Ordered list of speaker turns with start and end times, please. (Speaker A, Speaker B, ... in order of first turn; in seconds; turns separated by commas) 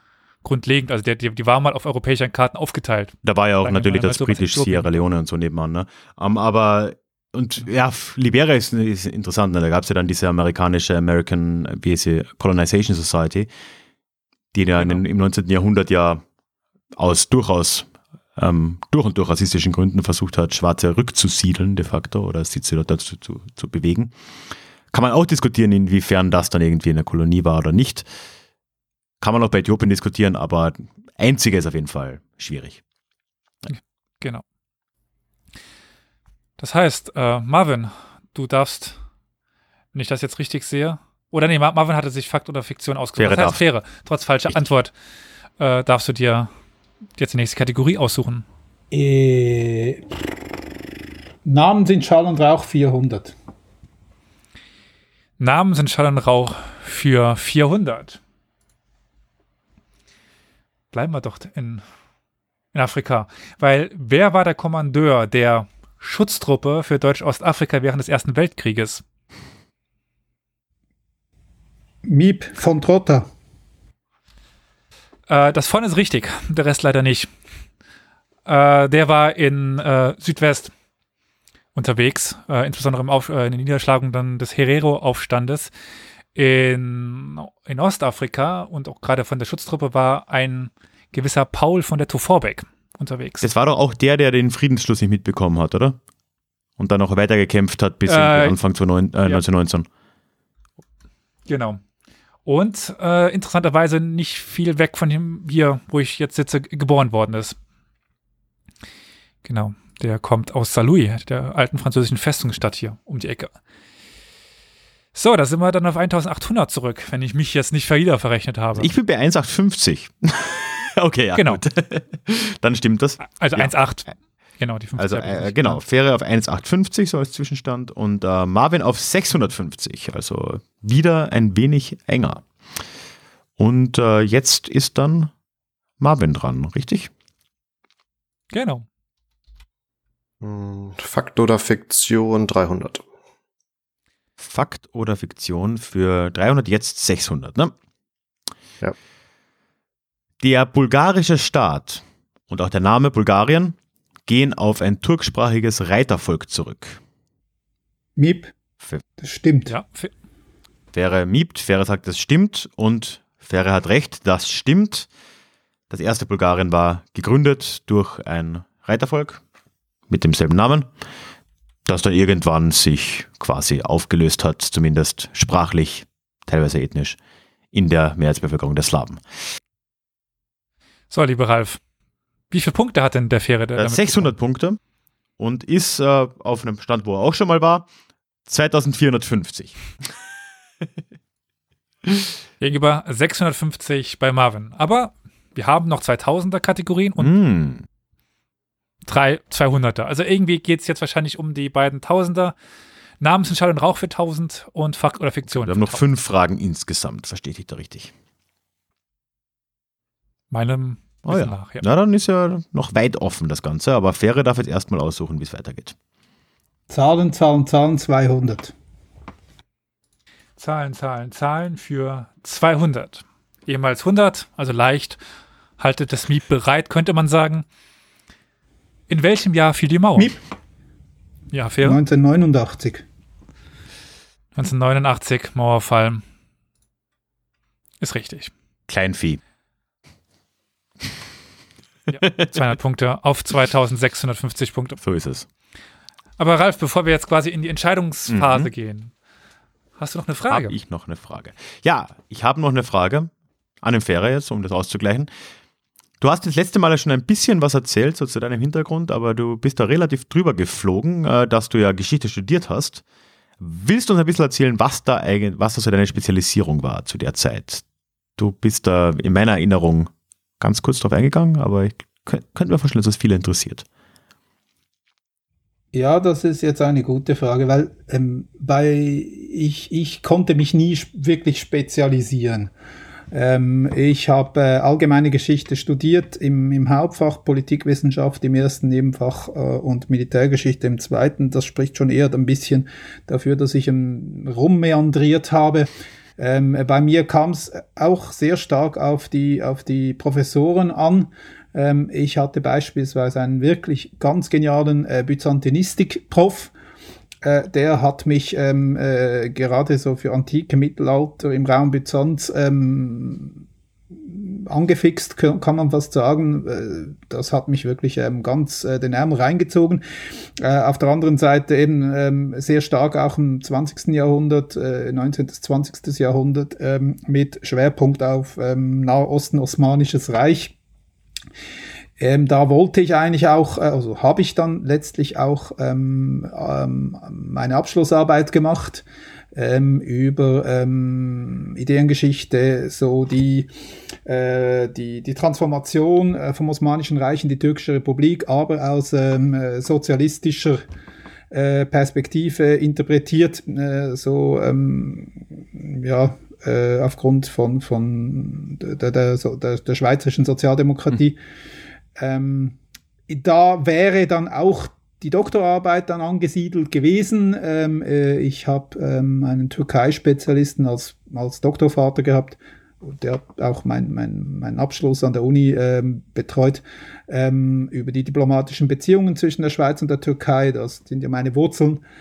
Speaker A: 0.4-5.0, Speaker B: 3.2-13.5, Speaker B: 14.5-16.2, Speaker A: 14.8-15.0, Speaker B: 16.9-24.1, Speaker B: 24.9-28.1, Speaker B: 29.2-32.8, Speaker A: 33.7-34.4, Speaker A: 36.6-39.0, Speaker A: 39.9-44.9, Speaker B: 43.2-43.6, Speaker A: 45.6-46.5, Speaker A: 47.2-48.5, Speaker C: 48.9-50.0, Speaker C: 51.5-53.3, Speaker A: 55.4-58.2, Speaker A: 60.9-61.8, Speaker A: 62.7-69.0, Speaker C: 72.0-73.3, Speaker A: 75.3-77.3, Speaker A: 78.5-80.7, Speaker A: 81.8-85.7, Speaker A: 86.3-93.5, Speaker B: 93.4-96.0, Speaker B: 96.8-99.9, Speaker A: 98.1-98.6, Speaker A: 101.5-101.8, Speaker A: 102.5-107.6, Speaker A: 109.4-113.5, Speaker A: 115.2-118.9, Speaker B: 118.8-123.7, Speaker A: 121.3-121.6, Speaker A: 123.2-125.8, Speaker B: 125.0-132.4, Speaker B: 133.6-135.3, Speaker B: 136.0-137.1, Speaker A: 138.5-138.8, Speaker D: 140.4-143.0, Speaker B: 144.4-147.7, Speaker B: 150.4-157.0, Speaker C: 158.2-158.5, Speaker C: 159.2-159.8, Speaker A: 159.7-160.1, Speaker B: 160.9-165.1, Speaker B: 165.9-169.4, Speaker B: 170.1-170.9, Speaker B: 171.9-177.2, Speaker B: 177.7-179.2, Speaker A: 181.1-181.8, Speaker A: 182.5-184.3, Speaker B: 183.8-184.8, Speaker B: 185.4-187.9, Speaker B: 188.5-189.8, Speaker A: 192.6-197.3, Speaker B: 197.2-197.9, Speaker A: 199.1-202.6, Speaker A: 203.2-206.0, Speaker B: 205.5-208.1, Speaker A: 210.5-211.8, Speaker B: 211.3-216.0, Speaker C: 216.9-218.7, Speaker A: 220.6-225.2, Speaker A: 225.8-227.7, Speaker A: 229.1-230.4, Speaker A: 231.5-232.0, Speaker C: 231.8-233.1, Speaker A: 234.6-236.2, Speaker A: 238.0-238.5, Speaker B: 238.9-239.4, Speaker A: 242.1-245.0, Speaker B: 245.0-245.5, Speaker A: 246.4-249.1, Speaker B: 248.3-248.7, Speaker A: 250.0-250.8, Speaker B: 250.5-253.3, Speaker B: 253.8-255.3, Speaker B: 256.2-263.0, Speaker B: 263.6-267.8, Speaker B: 268.4-273.9, Speaker C: 275.9-282.7, Speaker C: 283.3-306.7, Speaker C: 307.4-313.6, Speaker C: 314.2-320.0, Speaker C: 320.6-330.8, Speaker C: 332.2-343.7, Speaker C: 344.2-350.8, Speaker C: 351.5-361.4, Speaker C: 362.2-362.8, Speaker C: 363.3-382.0